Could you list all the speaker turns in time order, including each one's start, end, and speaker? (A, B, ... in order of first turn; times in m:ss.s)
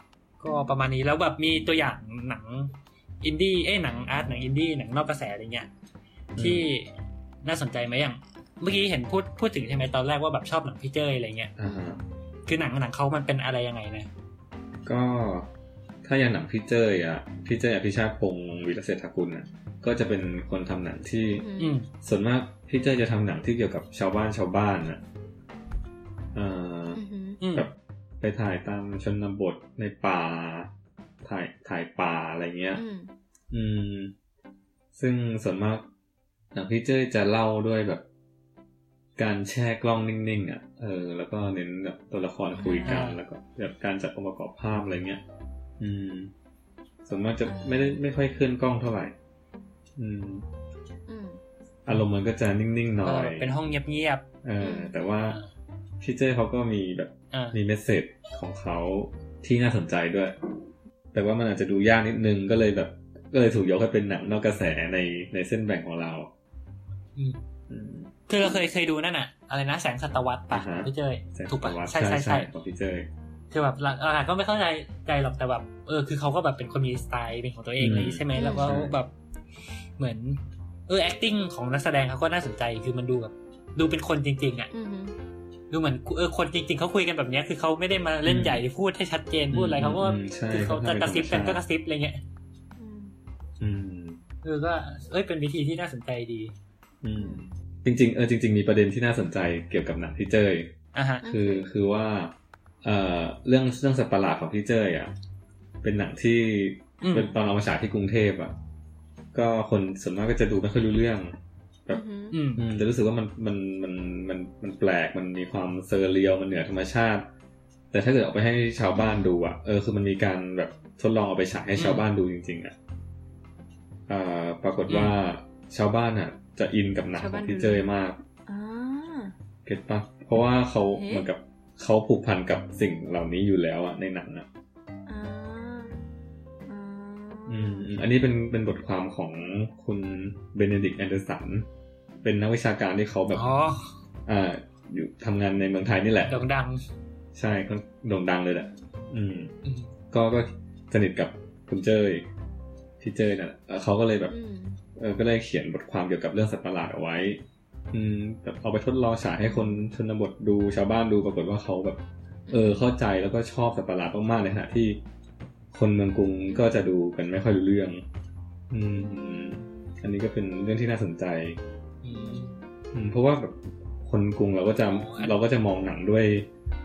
0:00.4-0:05.7 A
0:06.3-0:06.7 B
0:06.4-0:06.9 A
0:07.4-0:11.5 A
0:11.6-0:12.0 B
0:12.5-0:14.1 A
0:14.8-0:15.5 B
0:16.0-0:25.0 B
0:21.3-0:21.8 C
0:21.6-0:21.9 A
0:26.3-0:27.0 B
0:26.9-0:27.4 C
0:27.4-0:27.7 A
0:27.5-0:30.7 B
0:31.2-0:32.8 B
0:32.7-0:33.1 C
0:33.5-0:34.1 B
0:34.9-0:35.9 B
0:36.5-0:38.0 B
0:39.2-0:45.2 B
0:42.5-0:43.0 C
0:42.8-0:43.2 A
0:45.8-0:46.3 B
0:47.0-0:49.1 B
0:47.4-0:48.0 C
0:50.0-0:50.4 B
0:51.1-0:51.4 C
0:51.8-0:53.6 B
0:53.0-0:54.2 A
0:54.4-0:55.4 B
0:54.6-0:55.0 C
0:56.0-1:00.4 B
0:57.3-0:57.6 A
1:01.1-1:06.3 B
1:07.7-1:08.1 B
1:08.3-1:12.5 A
1:10.5-1:13.1 B
1:13.5-1:19.1 A
1:17.8-1:19.0 B
1:18.3-1:18.7 C
1:20.0-1:24.7 A
1:24.7-1:25.2 C
1:25.7-1:32.2 A
1:28.2-1:28.6 B
1:29.5-1:31.6 B
1:32.8-1:33.1 C
1:33.6-1:34.2 B
1:34.4-1:36.5 A
1:37.0-1:45.1 B
1:37.1-1:37.5 C
1:40.9-1:41.2 A
1:41.2-1:41.7 C
1:45.8-1:48.5 B
1:47.0-1:47.3 C
1:47.0-1:47.3 A
1:49.3-1:51.4 B
1:51.9-1:52.4 C
1:52.3-1:52.7 A
1:52.6-1:57.3 B
1:57.9-2:02.7 B
1:58.9-1:59.3 C
2:01.8-2:02.0 A
2:04.1-2:08.2 B
2:04.9-2:05.2 A
2:07.2-2:07.9 C
2:08.5-2:09.3 C
2:09.6-2:14.5 B
2:10.9-2:11.2 C
2:15.1-2:15.9 C
2:16.6-2:17.9 C
2:17.5-2:21.7 B
2:22.2-2:23.5 B
2:23.3-2:24.0 A
2:24.3-2:26.5 B
2:26.3-2:26.8 A
2:27.3-2:29.5 B
2:29.6-2:29.9 A
2:30.1-2:32.2 B
2:33.0-2:34.3 B
2:34.3-2:34.8 C
2:35.0-2:45.0 B
2:39.4-2:39.9 C
2:42.5-2:42.9 C
2:45.7-2:48.0 B
2:46.5-2:46.8 C
2:48.7-2:51.6 B
2:49.0-2:49.7 C
2:52.0-2:52.5 A
2:52.1-2:52.7 C
2:52.9-2:56.5 B
2:54.9-2:55.3 A